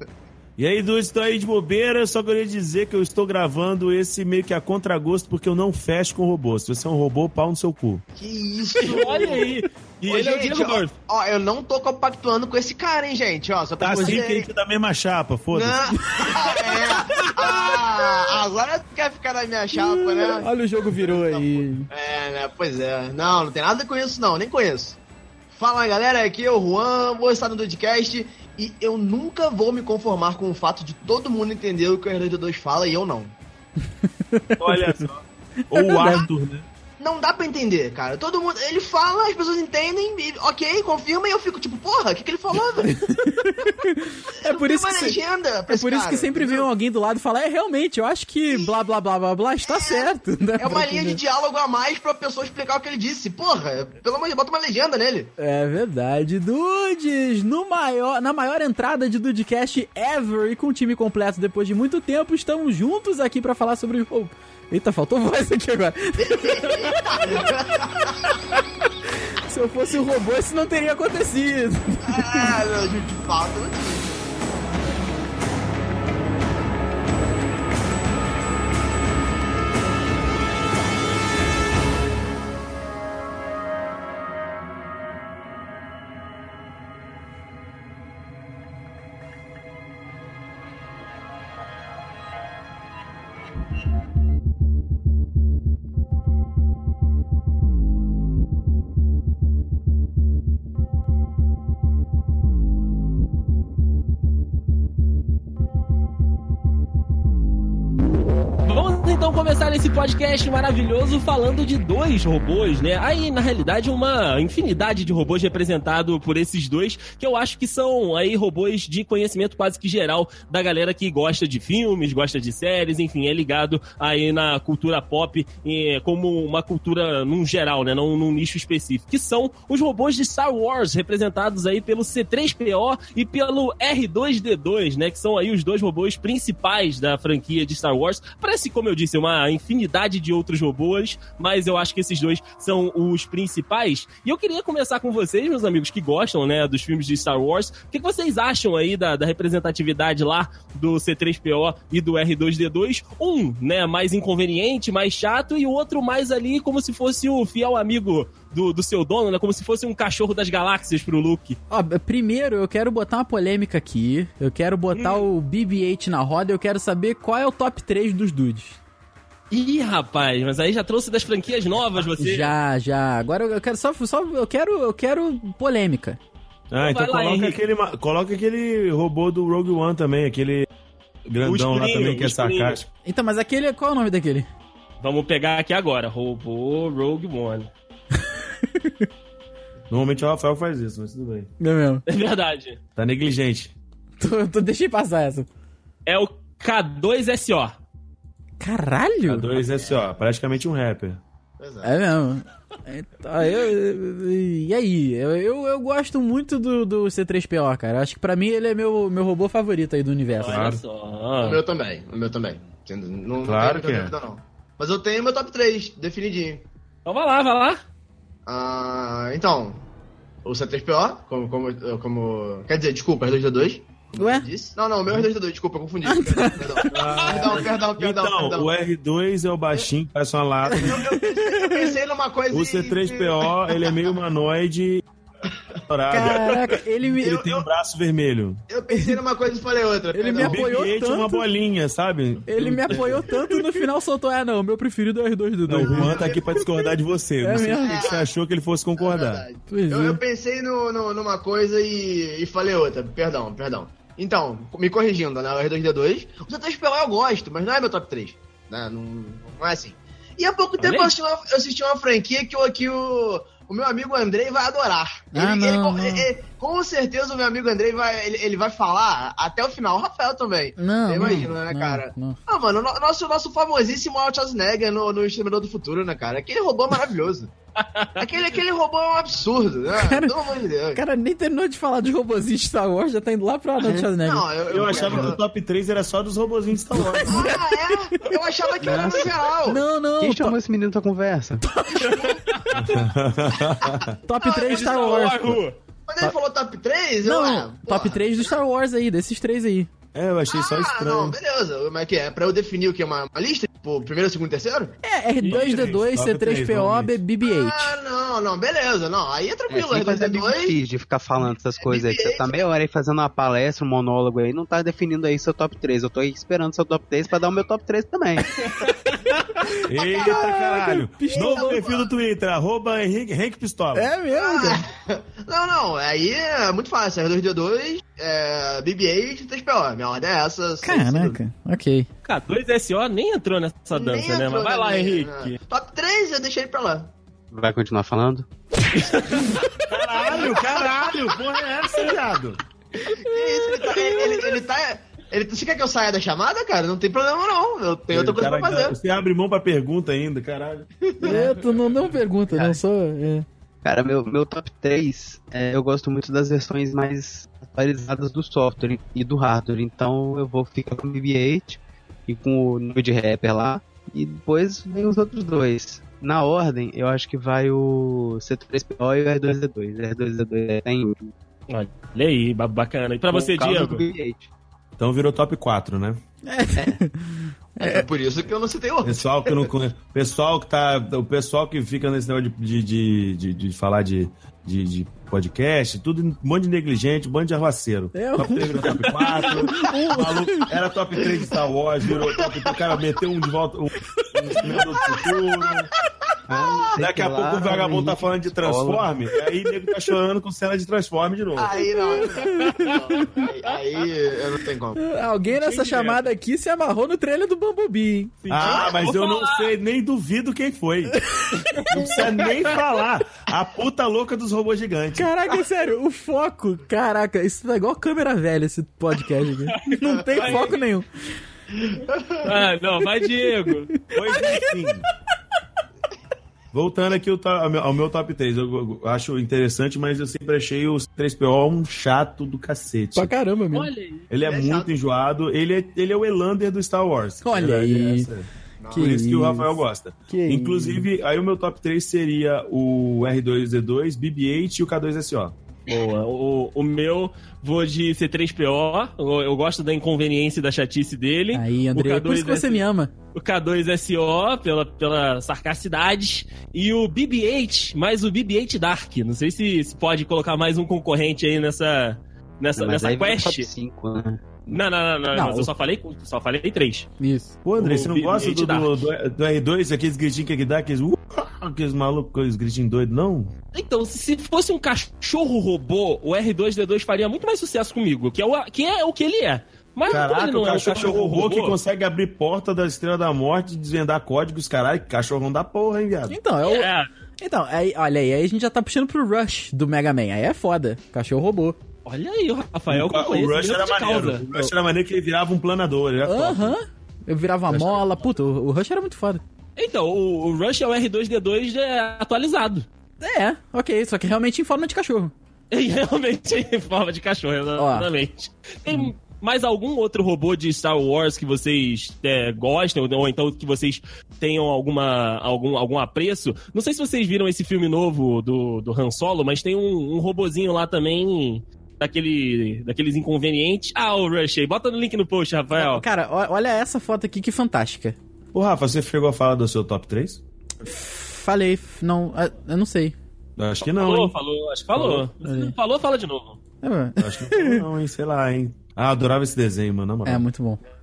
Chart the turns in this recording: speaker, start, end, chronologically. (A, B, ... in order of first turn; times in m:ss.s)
0:00.6-0:08.0 A
0:08.2-0:09.6 B
0:08.8-0:10.9 C
0:10.1-0:14.5 B
0:13.8-0:15.9 A
0:13.9-0:14.2 D
0:15.5-0:25.0 B
0:16.1-0:17.4 D
0:19.7-0:21.9 D
0:25.5-0:33.3 B
0:34.1-0:35.1 D
0:34.6-0:36.7 A
0:35.7-0:36.3 D
0:37.0-0:43.0 B
0:42.8-0:51.2 D
0:44.4-0:46.7 B
0:49.6-0:55.3 B
0:55.4-1:07.5 D
1:06.2-1:08.4 B
1:09.1-1:12.5 D
1:12.0-1:14.2 B
1:48.6-2:41.6 C
2:41.7-2:48.8 D
2:45.0-2:45.3 C
2:49.5-2:52.5 C
2:52.2-2:56.2 D
2:56.7-3:00.7 A
2:56.8-2:57.6 C
3:01.3-3:02.9 A
3:01.4-3:02.8 C
3:03.0-3:04.5 D
3:05.0-3:07.7 C
3:08.6-3:09.0 D
3:09.9-3:11.5 A
3:11.6-3:12.0 D
3:12.1-3:12.8 C
3:13.0-3:13.8 A
3:14.2-3:15.5 D
3:16.0-3:17.8 C
3:18.6-3:19.5 D
3:19.3-3:21.2 A
3:19.8-3:20.1 B
3:21.6-3:22.0 B
3:21.8-3:30.8 D
3:30.4-3:31.6 C
3:30.4-3:30.8 A
3:31.4-3:36.7 B
3:33.4-3:34.2 A
3:37.0-3:37.8 C
3:38.5-3:39.8 B
3:40.4-3:48.7 B
3:44.2-3:44.5 D
3:46.0-3:47.0 D
3:46.9-3:51.1 A
3:50.7-3:51.9 D
3:50.8-3:54.1 B
3:52.5-3:55.0 A
3:55.9-3:58.6 A
3:56.1-3:57.5 D
3:57.2-3:57.7 B
3:58.7-4:00.6 B
3:58.9-3:59.2 D
4:00.1-4:01.5 D
4:00.4-4:03.4 A
4:02.5-4:06.6 D
4:02.9-4:03.2 B
4:05.7-4:09.5 A
4:05.8-4:06.6 B
4:07.4-4:08.0 D
4:07.5-4:08.3 B
4:09.0-4:37.5 B
4:09.7-4:10.2 D
4:20.8-4:21.1 C
4:25.3-4:26.3 D
4:30.8-4:32.4 D
4:37.8-4:38.3 C
4:38.2-4:41.0 B
4:39.9-4:40.3 D
4:40.9-4:45.3 D
4:43.8-4:44.1 E
4:44.1-4:45.4 B
4:44.7-4:47.5 A
4:46.9-4:48.3 D
4:47.2-4:49.8 B
4:48.8-4:49.4 E
4:49.6-4:50.6 D
4:50.2-4:51.6 E
4:51.8-4:52.4 D
4:52.0-4:52.3 B
4:52.1-4:52.6 C
4:52.7-4:54.1 A
4:53.8-4:54.9 B
4:54.2-4:55.6 D
4:54.5-4:55.8 C
4:56.1-4:58.5 B
4:57.2-4:59.9 D
5:00.1-5:01.4 A
5:00.5-5:05.0 B
5:05.0-5:08.0 D
5:05.4-5:07.2 A
5:07.4-5:10.8 B
5:09.7-5:18.6 E
5:11.8-5:12.7 B
5:18.9-5:19.3 C
5:19.6-5:21.8 D
5:19.6-5:22.1 B
5:19.9-5:24.1 A
5:24.0-5:24.9 D
5:24.3-5:31.4 B
5:30.8-5:32.1 D
5:32.2-5:35.6 C
5:33.9-5:37.1 B
5:37.5-5:38.5 E
5:38.9-5:39.7 C
5:39.9-5:42.6 A
5:40.1-5:41.2 B
5:43.0-5:49.0 B
5:43.1-5:44.4 D
5:48.1-5:50.9 A
5:51.1-5:51.5 B
5:51.2-5:53.5 D
5:52.5-5:52.8 E
5:53.8-6:11.3 E
6:11.7-6:14.0 C
6:13.3-6:14.5 E
6:15.0-6:16.2 A
6:16.5-6:18.0 D
6:17.8-6:19.7 B
6:19.0-6:35.9 A
6:28.1-6:30.7 D
6:32.2-6:32.9 B
6:34.6-6:35.3 B
6:36.5-6:39.1 E
6:36.5-6:37.0 B
6:37.0-6:41.8 A
6:41.6-6:45.0 B
6:41.9-6:43.2 D
6:45.0-6:48.4 D
6:45.5-6:46.3 C
6:48.4-6:49.7 C
6:48.5-6:51.2 A
6:48.5-6:48.9 B
6:51.6-6:52.8 C
6:51.9-6:55.3 A
6:55.2-7:01.1 D
6:59.7-7:00.8 C
7:01.7-7:02.5 B
7:02.4-7:03.9 C
7:03.2-7:04.9 D
7:04.1-7:05.1 A
7:06.7-7:13.3 A
7:13.2-7:13.9 D
7:13.7-7:14.3 C
7:14.3-7:25.5 A
7:14.4-7:15.0 B
7:17.4-7:18.3 D
7:18.8-7:19.1 B
7:18.9-7:19.7 D
7:20.3-7:21.1 D
7:25.9-7:43.7 C
7:31.5-7:33.1 D
7:42.8-7:44.4 E
7:44.7-7:47.1 C
7:45.3-7:45.7 D
7:47.2-7:47.6 D
7:47.6-7:53.5 A
7:47.8-7:49.1 C
7:53.7-8:01.8 C
8:00.1-8:06.4 A
8:06.3-8:11.8 D
8:06.6-8:07.1 C
8:12.0-8:14.5 C
8:12.9-8:16.8 A
8:16.2-8:19.4 D
8:17.7-8:18.0 A
8:19.8-8:22.9 C
8:23.2-8:25.3 D
8:25.7-8:46.0 C
8:27.8-8:28.1 D
8:45.8-8:48.2 D
8:48.5-8:50.4 A
8:50.8-8:53.1 D
8:53.6-8:54.4 A
8:53.9-8:56.6 C
8:54.9-8:55.3 A
8:55.4-8:55.8 D
8:56.8-8:57.8 D
8:57.2-9:00.4 A
9:00.2-9:00.8 D